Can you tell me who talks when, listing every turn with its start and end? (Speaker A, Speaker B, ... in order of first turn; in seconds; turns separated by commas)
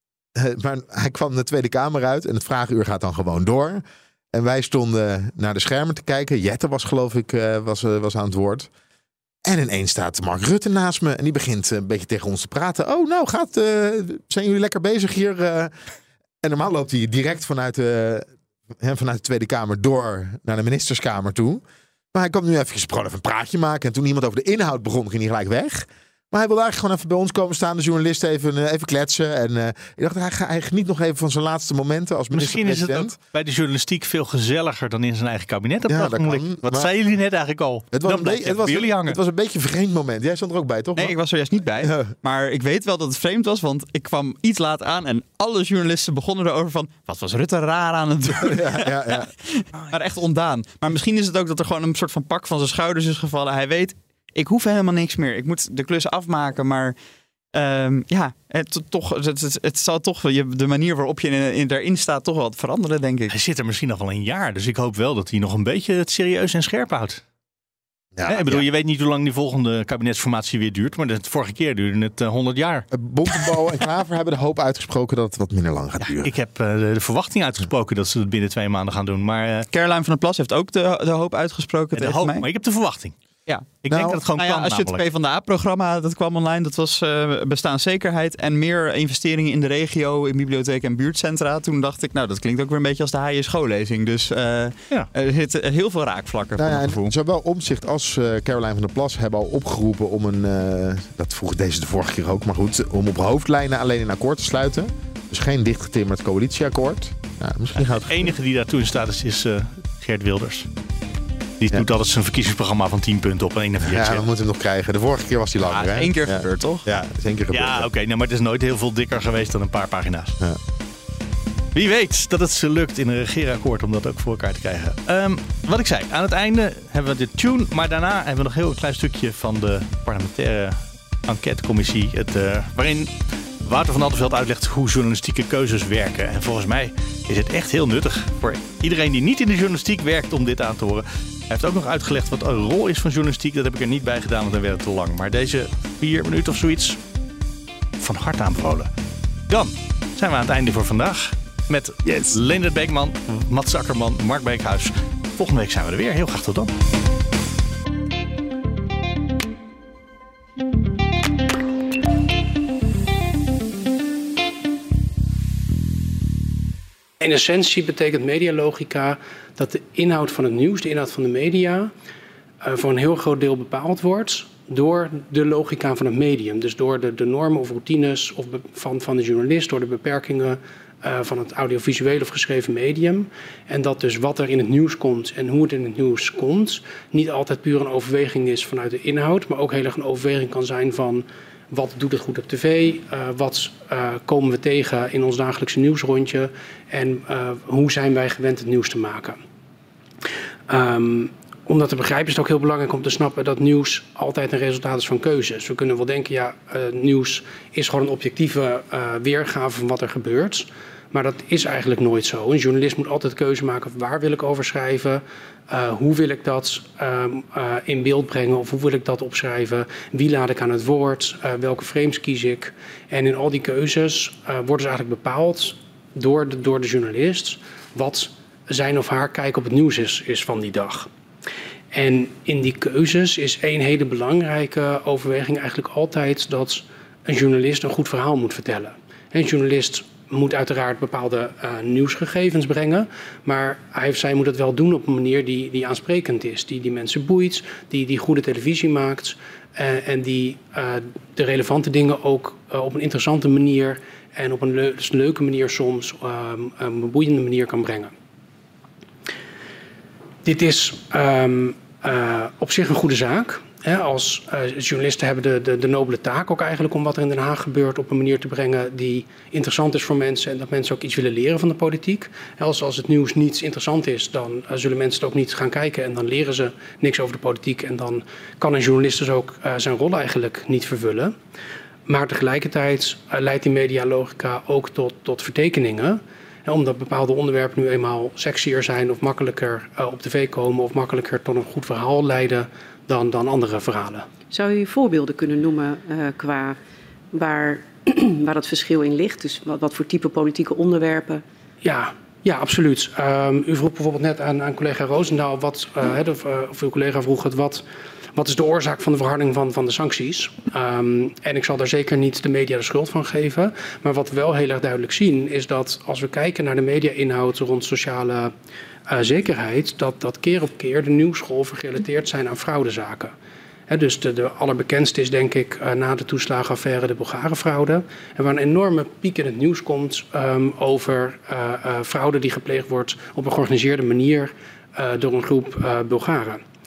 Speaker A: 0.3-8.7, Speaker A: 9.4-15.7, Speaker A: 16.4-18.3, Speaker A: 18.8-21.6, Speaker A: 22.1-33.1, Speaker B: 32.3-39.2, Speaker A: 35.9-36.9, Speaker A: 37.9-41.1, Speaker C: 41.0-57.0, Speaker A: 41.8-42.1, Speaker A: 48.3-49.3, Speaker C: 57.5-63.4, Speaker B: 63.3-67.2, Speaker A: 68.2-68.7, Speaker B: 68.2-72.9, Speaker A: 72.9-76.3, Speaker B: 76.2-79.7, Speaker C: 79.7-82.5, Speaker B: 82.0-83.2, Speaker B: 83.8-85.0, Speaker A: 83.9-84.2, Speaker C: 84.4-97.1, Speaker A: 96.6-108.3, Speaker B: 107.8-110.7, Speaker B: 111.6-114.3, Speaker A: 113.8-117.9, Speaker C: 115.6-116.9, Speaker B: 117.5-120.4, Speaker B: 121.8-133.1, Speaker B: 133.6-147.0, Speaker B: 148.0-148.9, Speaker B: 149.5-156.7, Speaker A: 152.1-152.4, Speaker D: 167.2-171.9, Speaker D: 172.6-199.4, Speaker D: 200.7-231.1, Speaker D: 231.9-258.1, Speaker D: 260.4-281.4, Speaker D: 282.1-294.3, Speaker E: 294.5-296.8, Speaker E: 297.3-301.4, Speaker D: 301.8-318.5, Speaker D: 319.1-323.3, Speaker D: 323.9-336.6